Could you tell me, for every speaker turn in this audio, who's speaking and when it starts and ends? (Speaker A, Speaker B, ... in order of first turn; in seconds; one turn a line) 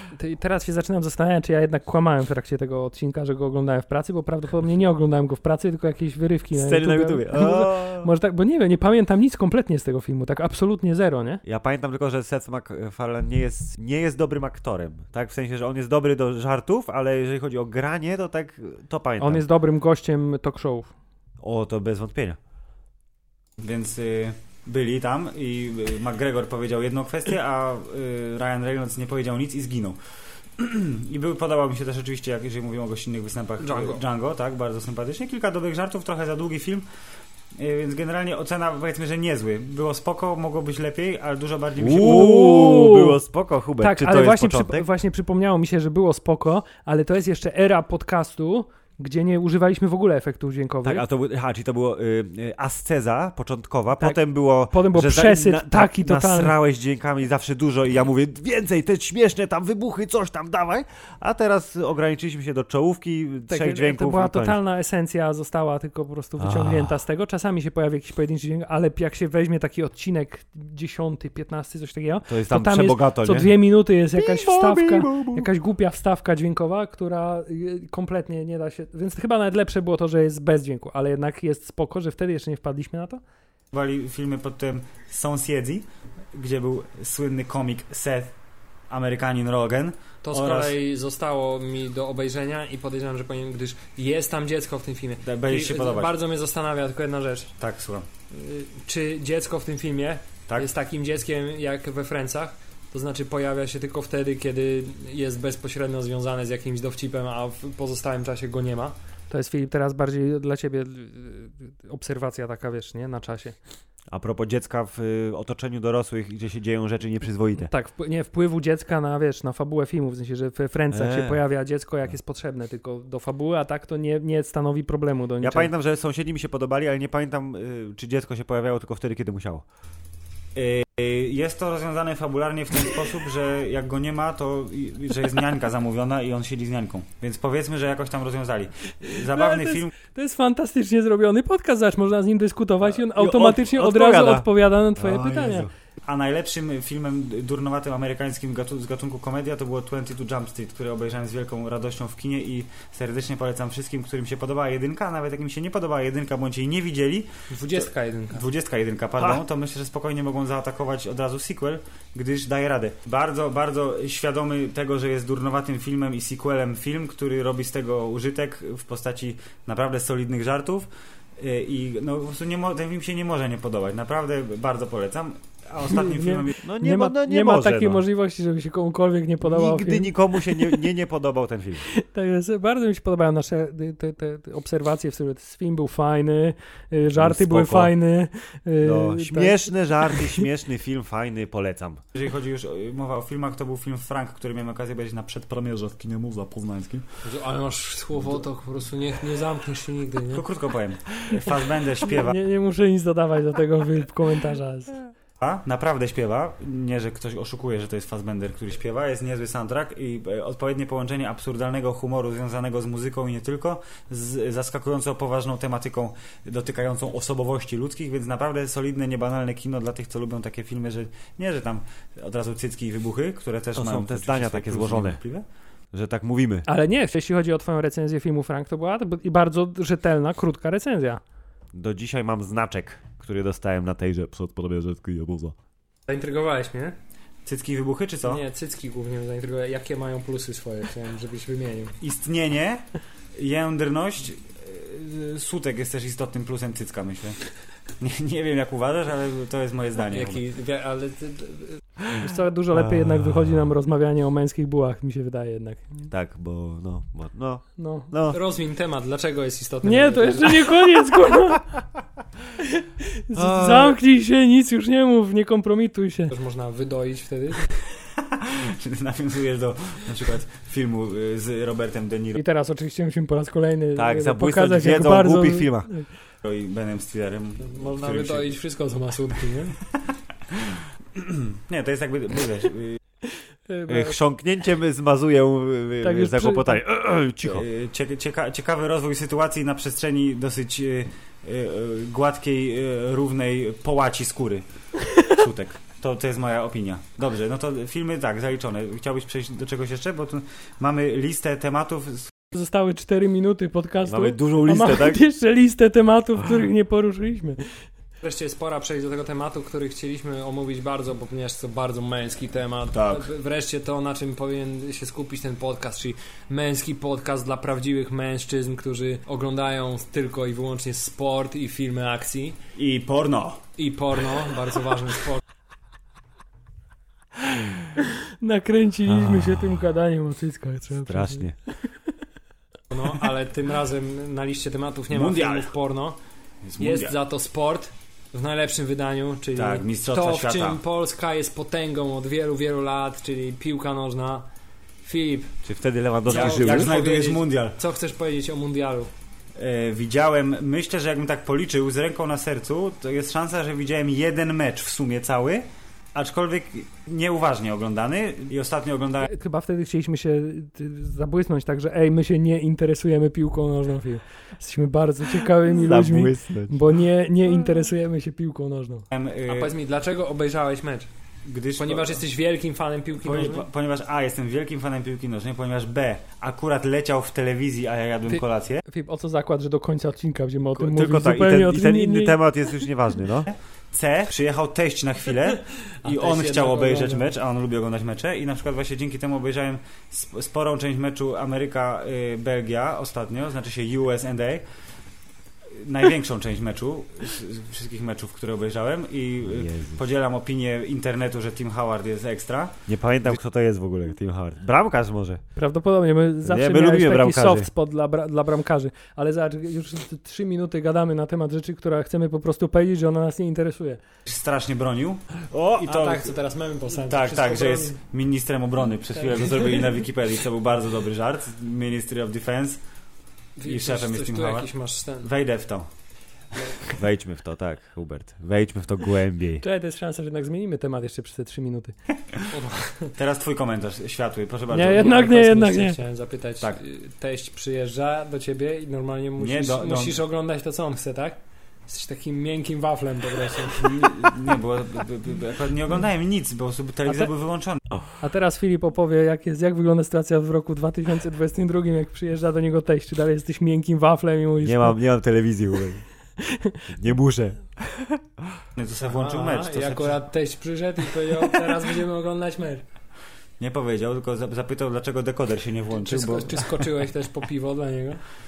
Speaker A: 0.1-11.4
Speaker B: 6.5-8.1
Speaker B: 11.4-19.4
Speaker A: 19.2-20.9
Speaker B: 21.4-22.4
Speaker C: 23.6-30.0
Speaker C: 30.6-36.9
Speaker D: 33.6-34.0
Speaker C: 37.5-42.5
Speaker B: 41.8-44.9
Speaker A: 42.0-43.2
Speaker A: 43.8-51.0
Speaker B: 50.8-64.6
Speaker A: 54.0-56.5
Speaker A: 63.5-83.2
Speaker B: 66.4-66.9
Speaker B: 72.3-73.6
Speaker B: 74.1-75.5
Speaker C: 83.7-88.3
Speaker C: 88.9-90.8
Speaker D: 90.2-97.5
Speaker C: 95.2-96.2
Speaker C: 97.6-98.0
Speaker D: 98.3-109.0
Speaker A: 109.3-113.5
Speaker B: 114.1-117.7
Speaker A: 117.6-125.7
Speaker B: 120.9-121.4
Speaker B: 125.4-129.6
Speaker C: 130.5-139.9
Speaker A: 139.1-145.7
Speaker B: 142.9-145.7
Speaker C: 146.0-176.6
Speaker D: 157.5-158.4
Speaker A: 175.9-180.8
Speaker B: 176.6-178.0
Speaker B: 179.4-181.8
Speaker A: 181.8-190.4
Speaker B: 187.1-187.9
Speaker B: 188.8-192.0
Speaker C: 192.1-197.1
Speaker D: 197.2-200.4
Speaker C: 200.3-202.4
Speaker A: 202.1-204.9
Speaker C: 205.4-225.4
Speaker B: 223.7-225.2
Speaker B: 225.9-226.7
Speaker A: 226.7-231.2
Speaker B: 231.7-235.5
Speaker D: 236.1-236.9
Speaker C: 237.4-238.4
Speaker D: 238.2-241.9
Speaker C: 242.0-247.4
Speaker C: 248.0-250.4
Speaker D: 250.1-251.8
Speaker A: 252.2-256.1
Speaker B: 252.7-253.4
Speaker B: 256.1-258.4
Speaker A: 257.8-258.1
Speaker D: 258.3-260.7
Speaker A: 259.8-261.8
Speaker A: 262.6-266.3
Speaker B: 263.3-264.0
Speaker D: 266.3-267.7
Speaker C: 268.4-272.4
Speaker A: 272.3-276.1
Speaker B: 273.9-275.9
Speaker C: 276.4-278.5
Speaker D: 277.6-279.8
Speaker C: 280.5-283.0
Speaker A: 283.7-284.1
Speaker B: 283.9-287.6
Speaker A: 286.0-286.8
Speaker C: 287.4-294.6
Speaker C: 295.1-302.3
Speaker A: 302.5-307.6
Speaker B: 304.1-305.2
Speaker D: 308.2-322.6
Speaker C: 312.9-313.3
Speaker C: 322.8-323.6
Speaker D: 323.8-325.4
Speaker A: 328.3-331.5
Speaker B: 329.1-329.6
Speaker B: 331.1-331.5
Speaker D: 332.9-336.2
Speaker C: 335.1-335.7
Speaker C: 336.6-337.1
Speaker D: 336.8-344.5
Speaker C: 339.5-340.8
Speaker D: 345.0-345.5
Speaker B: 345.6-346.9
Speaker C: 346.2-347.8
Speaker D: 346.2-349.1
Speaker C: 349.6-359.3
Speaker A: 359.2-369.0
Speaker B: 365.6-366.8
Speaker C: 369.1-369.7
Speaker D: 369.5-371.1
Speaker C: 371.4-372.2
Speaker D: 371.8-373.7
Speaker C: 373.2-378.8
Speaker A: 378.3-382.4
Speaker B: 380.7-383.5
Speaker C: 383.5-394.6
Speaker D: 386.0-387.2
Speaker C: 395.7-402.8
Speaker B: 399.5-400.0
Speaker B: 402.9-405.4
Speaker A: 405.6-414.0
Speaker B: 406.4-407.7
Speaker C: 414.3-416.3
Speaker D: 415.8-418.0
Speaker C: 416.9-422.8
Speaker D: 419.3-419.8
Speaker D: 423.6-425.3
Speaker C: 423.6-425.9
Speaker B: 426.9-429.6
Speaker A: 429.6-431.9
Speaker D: 432.5-433.1
Speaker C: 433.1-435.3
Speaker A: 434.7-436.0
Speaker D: 434.8-444.3
Speaker C: 439.4-440.2
Speaker C: 443.8-447.8
Speaker A: 448.2-455.0
Speaker B: 454.6-456.0
Speaker A: 456.4-456.8
Speaker B: 456.9-458.6
Speaker C: 458.8-460.2
Speaker D: 459.0-462.8
Speaker C: 463.6-466.8
Speaker D: 465.9-468.2